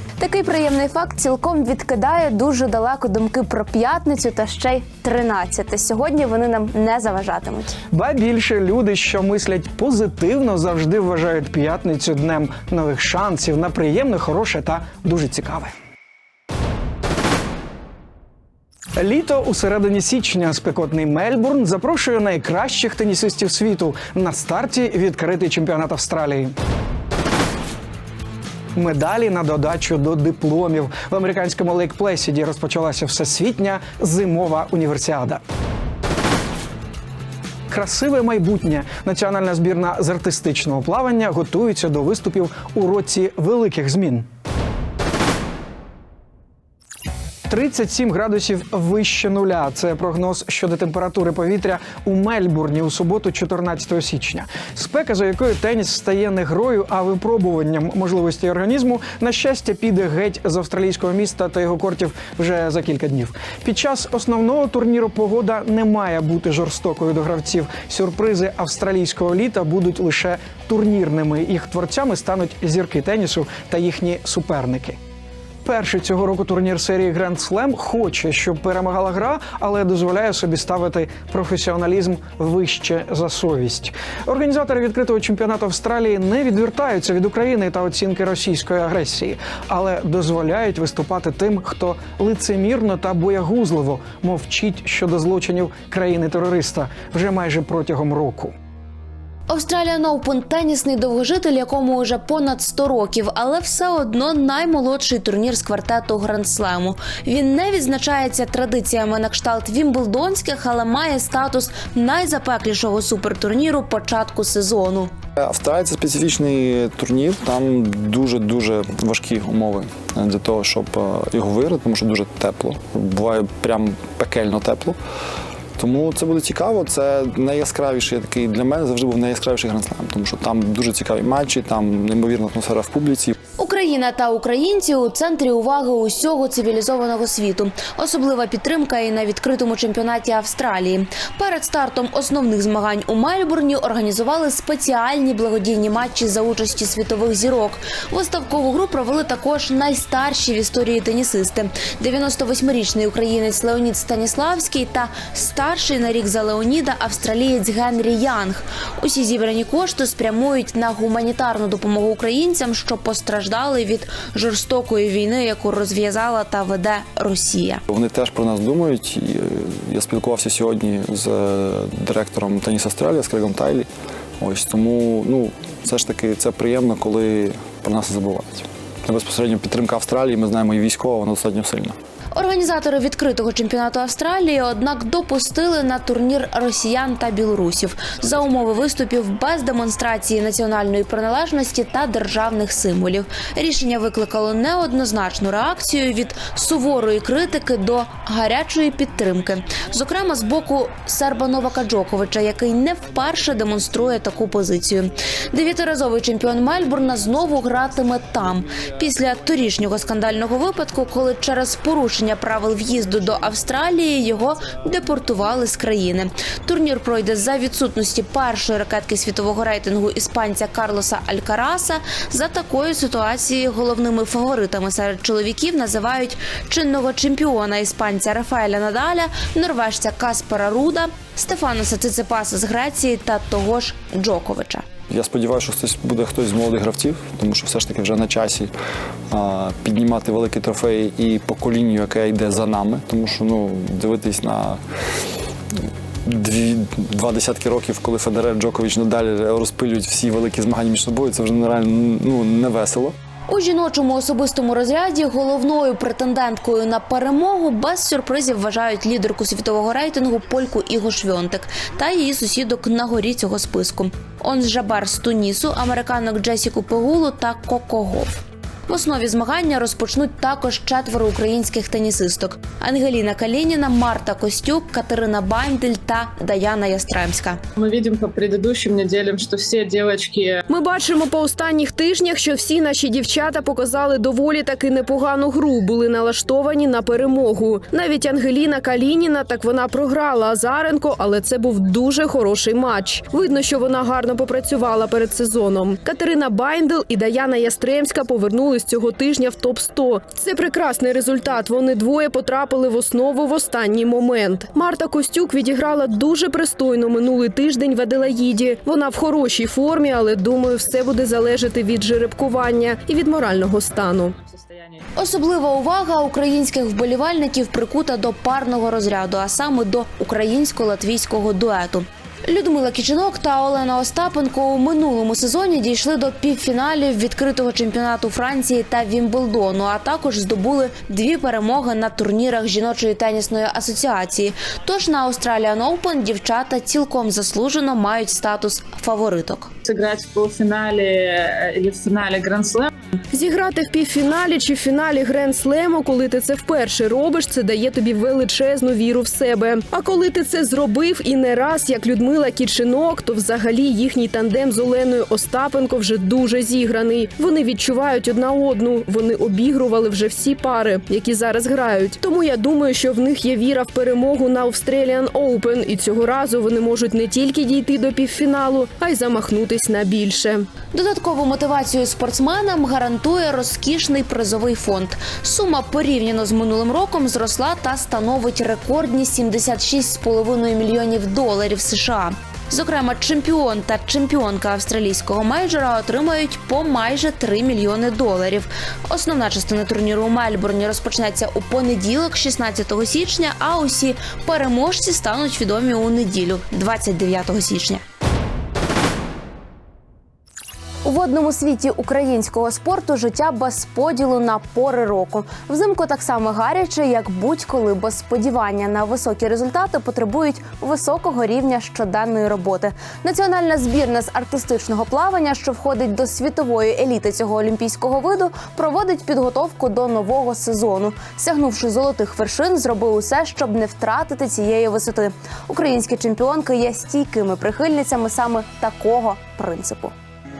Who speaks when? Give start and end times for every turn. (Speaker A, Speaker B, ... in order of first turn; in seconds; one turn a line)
Speaker A: 0.2-7.8
Speaker B: 7.9-15.7
Speaker B: 18.9-26.5
Speaker B: 28.7-35.4
Speaker B: 37.7-44.3
Speaker B: 47.5-75.0
Speaker B: 75.6-98.5
Speaker A: 99.5-115.1
Speaker C: 115.4-125.0
Speaker C: 125.8-133.3
Speaker A: 133.6-167.8
Speaker C: 167.9-182.0
Speaker A: 182.3-234.8
Speaker C: 235.1-238.7
Speaker C: 239.3-244.8
Speaker C: 246.2-253.1
Speaker A: 253.5-277.6
Speaker D: 277.8-280.6
Speaker E: 280.7-314.3
Speaker D: 314.5-315.0
Speaker A: 315.1-339.7
Speaker D: 339.9-342.9
Speaker E: 343.3-370.7
Speaker A: 370.9-398.0
Speaker A: 401.0-430.1